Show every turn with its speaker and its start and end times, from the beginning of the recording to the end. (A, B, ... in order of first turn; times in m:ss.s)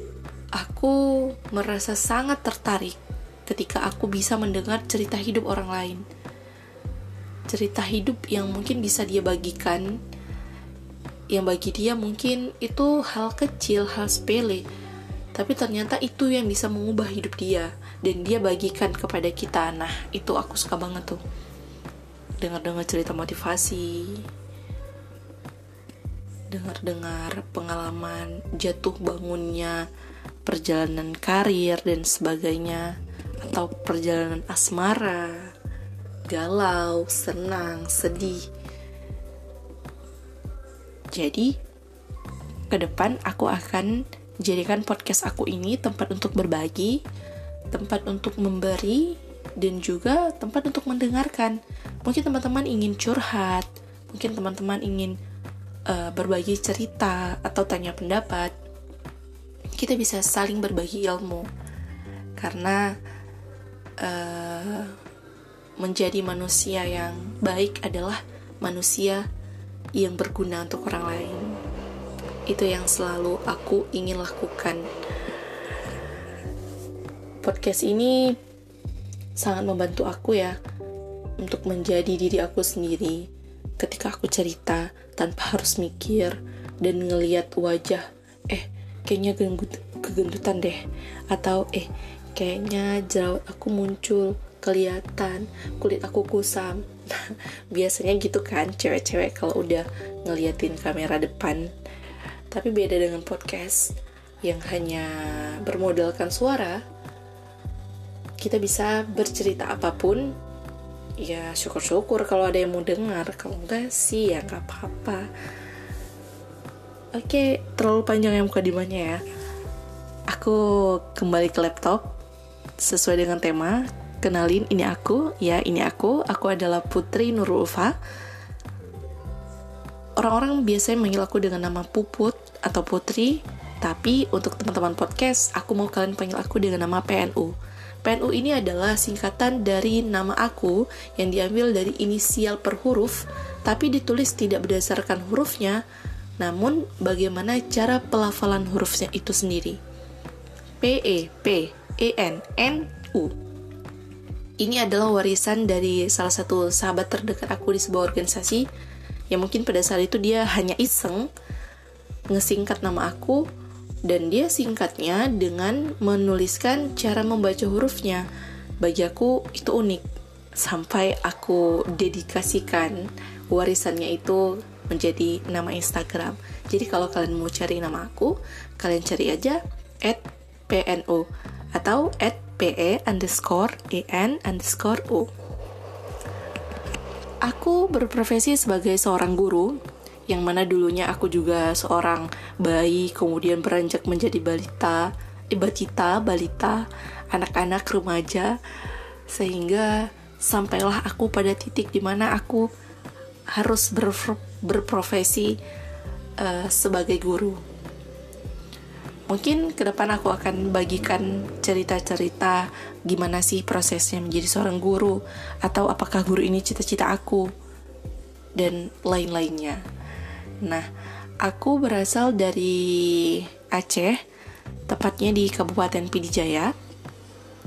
0:00.6-0:06.0 A
0:07.5-0:09.9 A
0:11.3-0:14.6 A
0:15.4-0:21.2 A
0:22.4-0:24.2 A
0:26.5-0:29.9 A
0:30.5-0:35.5 A
0:36.3-0:38.4 A
0:41.1-0:41.6 A
0:42.7-0:47.0 A
0:47.7-0:55.2 A
0:55.9-0:58.6 A
0:59.8-1:01.5 A
1:02.4-1:02.9 A
1:04.0-1:05.0 A
1:05.8-1:09.3 A
1:10.0-1:11.6 A
1:12.5-1:14.9 A
1:17.4-1:18.4 A
1:19.4-1:20.6 A
1:21.4-1:23.3 A
1:23.8-1:30.8 A
1:31.3-1:41.7 A
1:42.5-1:46.8 A
1:48.4-1:50.3 A
1:51.2-1:55.3 A
1:57.1-1:59.2 A
2:00.3-2:02.1 A
2:02.8-2:08.0 A
2:10.2-2:25.8 A
2:26.4-2:29.8 A
2:30.8-2:33.4 A
2:34.6-2:38.7 A
2:39.3-2:41.3 A
2:42.3-2:43.4 A
2:44.1-2:48.2 A
2:48.8-2:50.0 A
2:50.6-3:05.3 A
3:07.5-3:18.6 A
3:19.3-3:22.7 A
3:23.6-3:25.6 A
3:26.4-3:27.6 A
3:29.3-3:37.5 A
3:38.6-3:39.8 A
3:41.4-3:44.2 A
3:44.9-3:46.7 A